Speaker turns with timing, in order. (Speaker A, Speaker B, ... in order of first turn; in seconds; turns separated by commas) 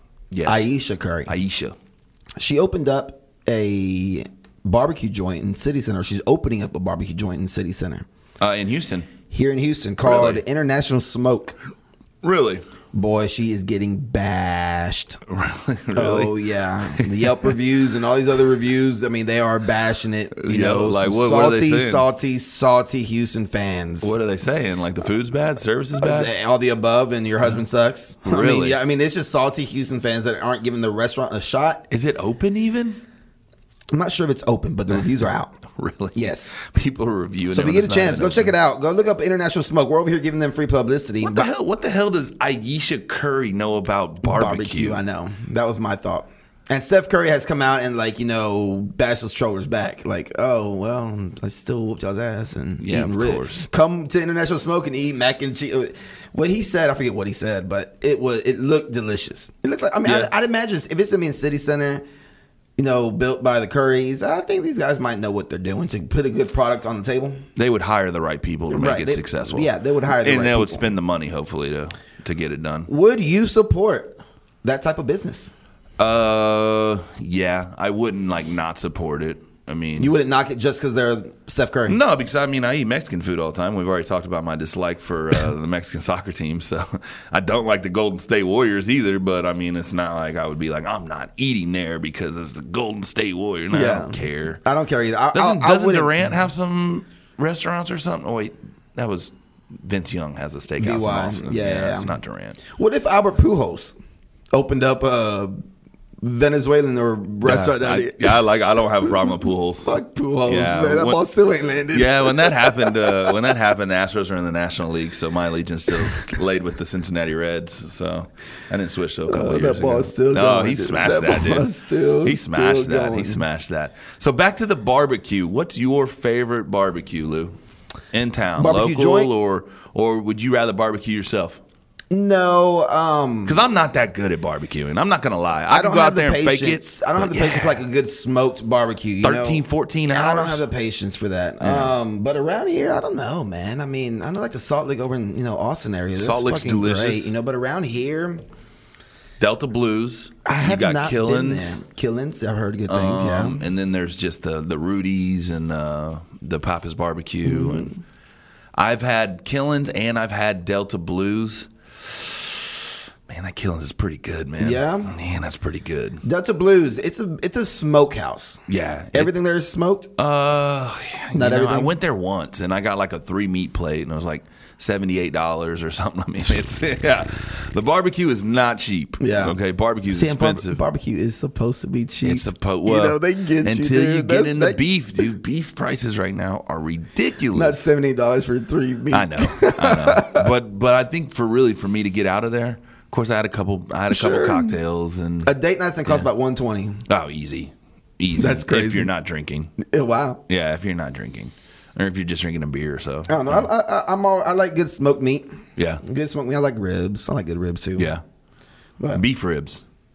Speaker A: 0.3-0.7, Speaker B: 0.5-1.3, Speaker A: 1.3-1.8, Speaker B: 2.4-8.1, Speaker A: 8.4-9.1, Speaker B: 9.3-11.6, Speaker A: 10.0-10.4, Speaker A: 12.2-12.6, Speaker B: 12.9-15.2, Speaker A: 15.3-16.4, Speaker B: 15.9-24.1, Speaker A: 17.0-17.5, Speaker A: 20.4-22.1, Speaker A: 24.0-26.3, Speaker B: 26.0-31.9, Speaker A: 28.2-28.8, Speaker A: 31.9-33.0, Speaker B: 33.9-35.6, Speaker A: 35.7-38.5, Speaker B: 36.1-36.5, Speaker B: 37.5-41.5, Speaker A: 41.2-45.0, Speaker B: 44.2-62.0, Speaker A: 52.8-53.6, Speaker A: 60.0-60.3, Speaker B: 62.8-67.4, Speaker A: 67.6-72.9, Speaker B: 68.7-70.9, Speaker B: 72.9-75.5, Speaker A: 76.0-80.1, Speaker B: 80.0-82.0, Speaker A: 81.9-94.6, Speaker B: 93.7-96.2, Speaker A: 95.3-102.6, Speaker B: 100.8-102.1, Speaker B: 102.7-104.0, Speaker B: 104.5-105.6, Speaker B: 106.2-108.4, Speaker A: 107.4-109.9, Speaker B: 109.8-113.3, Speaker A: 110.5-111.2, Speaker A: 111.9-127.6, Speaker B: 119.3-123.4, Speaker A: 128.1-131.6, Speaker B: 128.6-129.3, Speaker B: 132.1-133.6, Speaker A: 133.5-137.8, Speaker B: 135.7-148.4, Speaker A: 139.2-140.6, Speaker A: 141.6-141.9, Speaker A: 146.1-147.3, Speaker A: 149.4-151.8, Speaker B: 150.4-153.6, Speaker A: 152.9-157.9, Speaker B: 157.4-158.0, Speaker A: 158.8-166.2, Speaker B: 164.6-165.1, Speaker B: 166.2-168.6, Speaker A: 168.7-169.3, Speaker B: 169.1-170.1, Speaker A: 170.2-180.8, Speaker B: 171.3-171.9, Speaker B: 179.2-179.6, Speaker B: 180.1-184.8, Speaker A: 182.2-187.9, Speaker B: 187.5-190.5, Speaker A: 189.1-195.5, Speaker B: 194.1-194.8, Speaker B: 195.4-197.0, Speaker A: 197.1-199.7, Speaker B: 198.4-199.1, Speaker B: 199.8-200.4, Speaker A: 200.5-203.7, Speaker B: 203.3-205.5, Speaker B: 206.0-208.1, Speaker A: 208.0-208.2, Speaker A: 209.1-209.8